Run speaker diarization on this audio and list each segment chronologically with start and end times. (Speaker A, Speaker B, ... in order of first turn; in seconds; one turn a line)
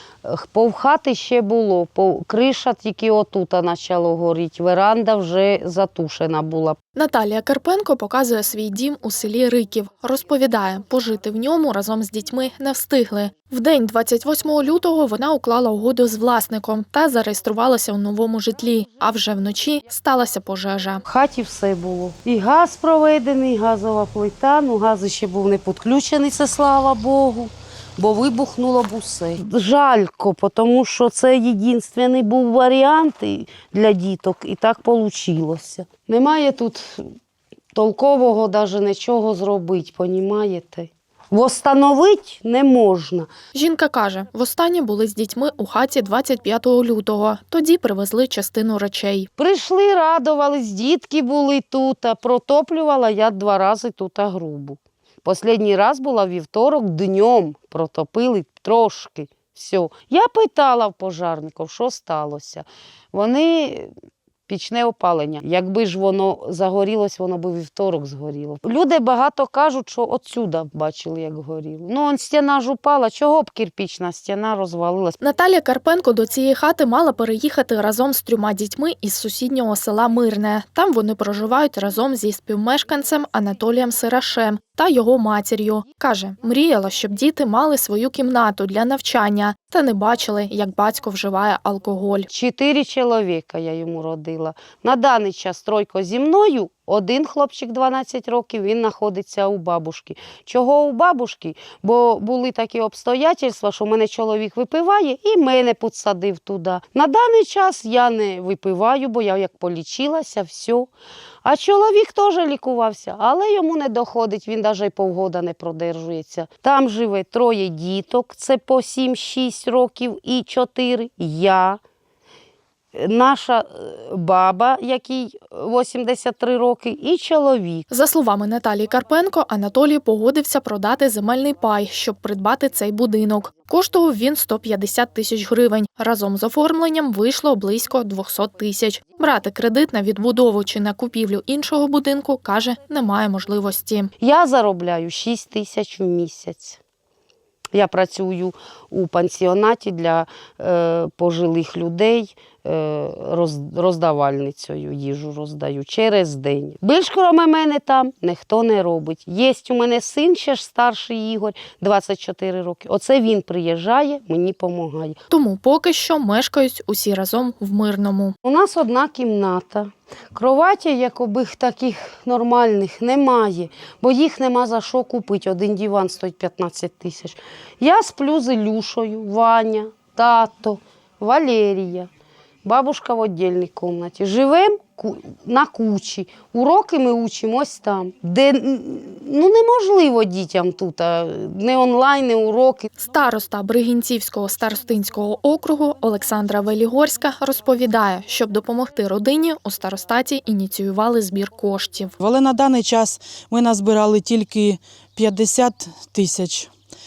Speaker A: 0.2-6.8
Speaker B: 7.0-21.0
Speaker A: 21.1-37.1
Speaker A: 37.8-43.3
Speaker B: 43.5-49.3
Speaker A: 49.4-63.9
Speaker A: 64.5-75.2
Speaker B: 75.2-92.3
Speaker A: 92.3-110.9
Speaker A: 111.4-121.8
Speaker A: 123.0-127.9
Speaker B: 127.9-144.1
Speaker A: 144.2-146.8
Speaker A: 147.7-165.2
Speaker B: 165.3-168.4
Speaker A: 168.4-182.1
Speaker A: 182.7-192.9
Speaker B: 193.0-202.2
Speaker C: 202.2-206.7